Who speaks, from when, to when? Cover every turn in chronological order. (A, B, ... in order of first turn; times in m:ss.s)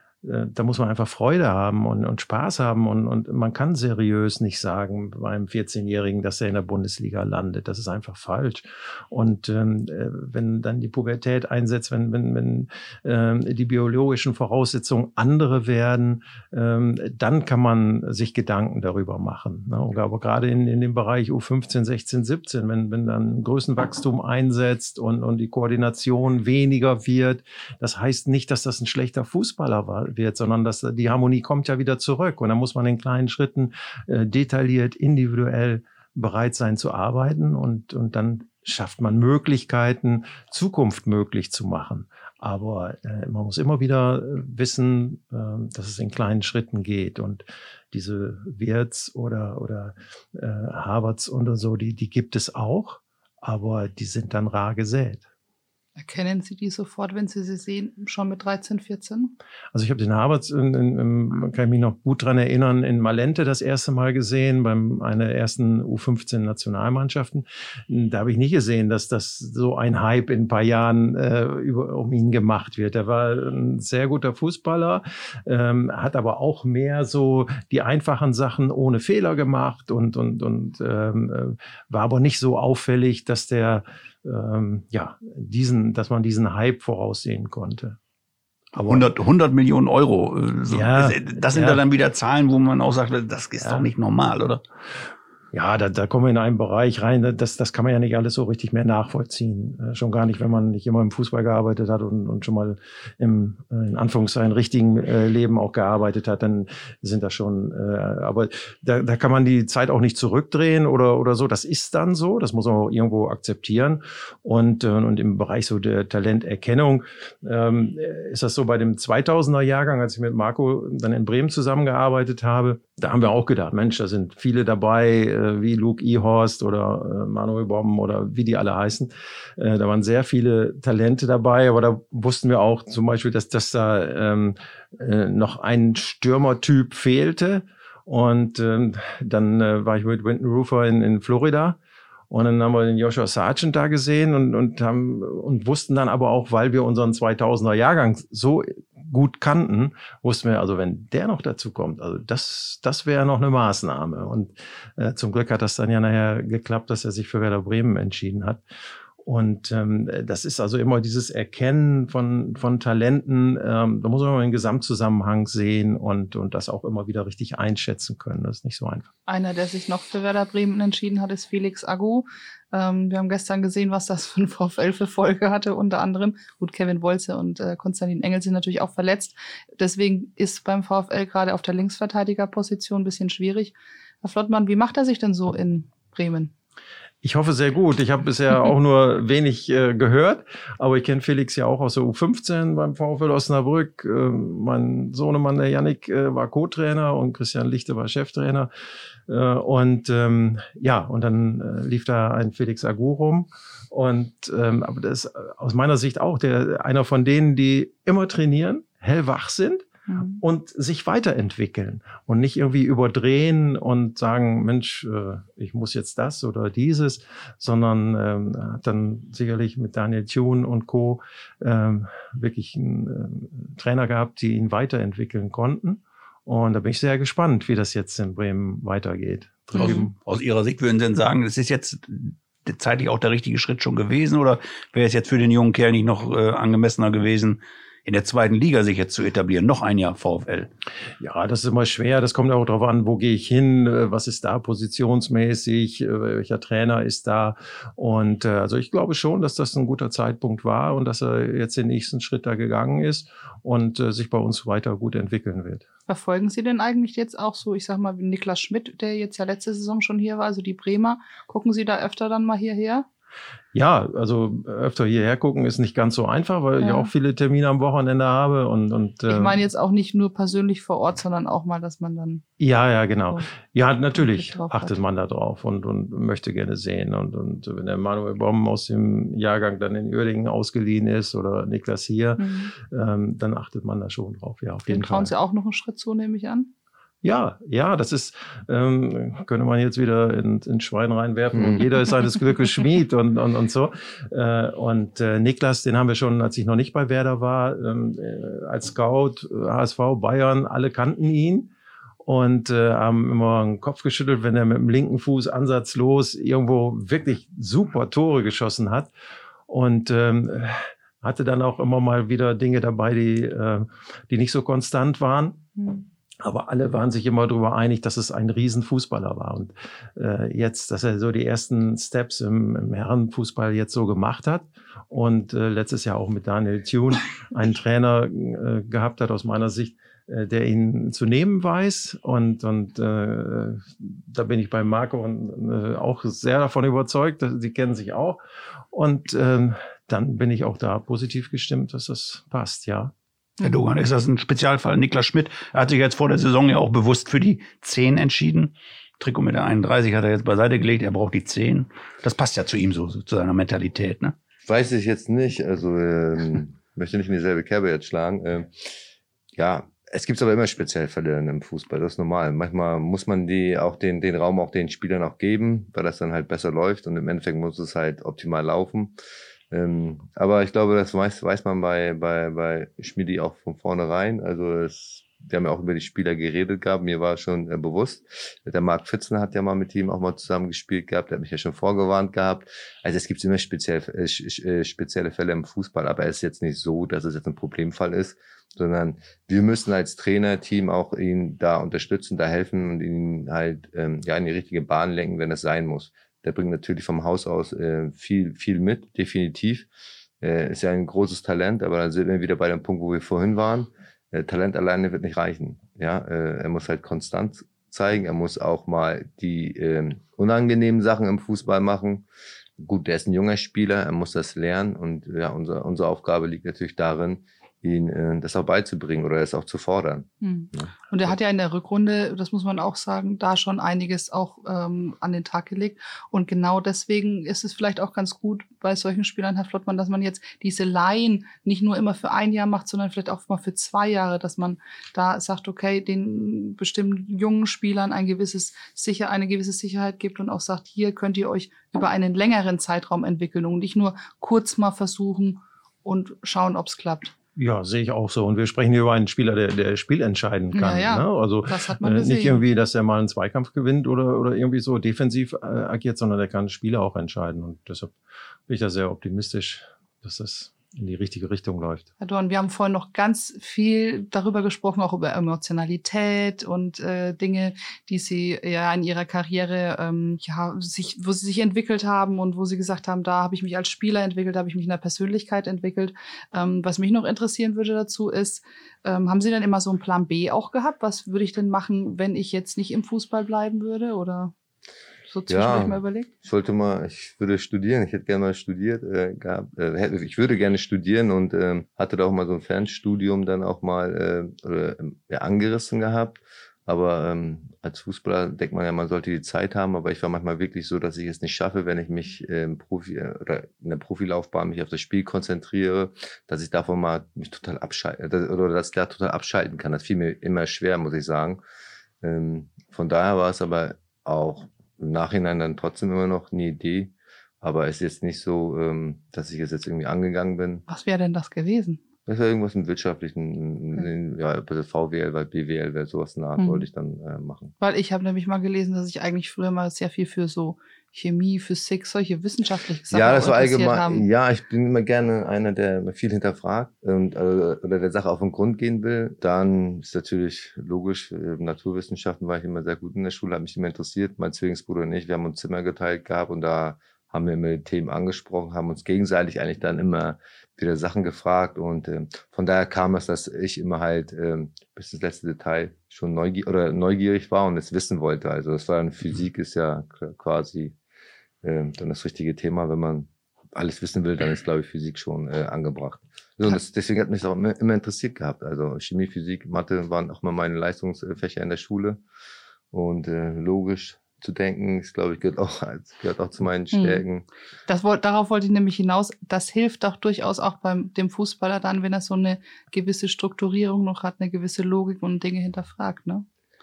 0:00.2-0:55.2 A
0:56.0-0:59.4 B
0:59.7-1:28.0 A
1:28.8-1:29.1 A
1:28.9-1:34.6 C
1:30.7-1:31.8 A
1:33.6-1:33.9 A
1:35.5-2:21.8 A
2:22.3-2:38.6 A
2:39.2-2:49.1 A
2:49.3-3:06.5 B
3:07.2-3:18.7 A
3:19.3-3:29.9 A
3:30.1-3:30.4 B
3:30.4-3:50.2 A
3:49.8-3:50.0 B
3:49.8-4:00.7 C
4:01.2-4:15.8 A
4:16.1-4:23.1 B
4:23.7-4:29.6 A
4:26.8-4:27.1 B
4:29.3-4:32.5 B
4:32.6-4:45.3 A
4:34.2-4:34.9 B
4:42.4-4:42.7 B
4:44.9-4:46.7 B
4:47.2-5:01.7 A
4:51.6-4:51.8 D
5:02.2-5:09.1 A
5:09.7-5:15.7 A
5:15.8-5:16.0 B
5:16.4-5:38.4 A
5:38.9-5:43.1 A
5:43.6-5:54.4 C
5:54.7-5:58.9 D
5:59.6-6:09.2 D
6:09.7-6:39.9 D
6:40.4-6:52.2 D
6:52.8-7:01.4 D
7:00.4-7:27.3 B
7:27.6-7:38.2 A
7:30.7-7:32.6 B
7:38.7-7:42.1 A
7:42.2-8:04.5 B
8:05.3-8:06.3 B
8:05.5-8:31.6 D
8:32.2-8:40.8 D
8:40.9-8:42.0 B
8:42.3-8:47.7 D
8:46.6-8:46.8 B
8:47.8-8:54.2 B
8:53.1-9:21.0 D
9:21.6-9:32.2 D
9:32.9-9:37.5 D
9:36.9-9:37.2 B
9:37.9-9:46.4 B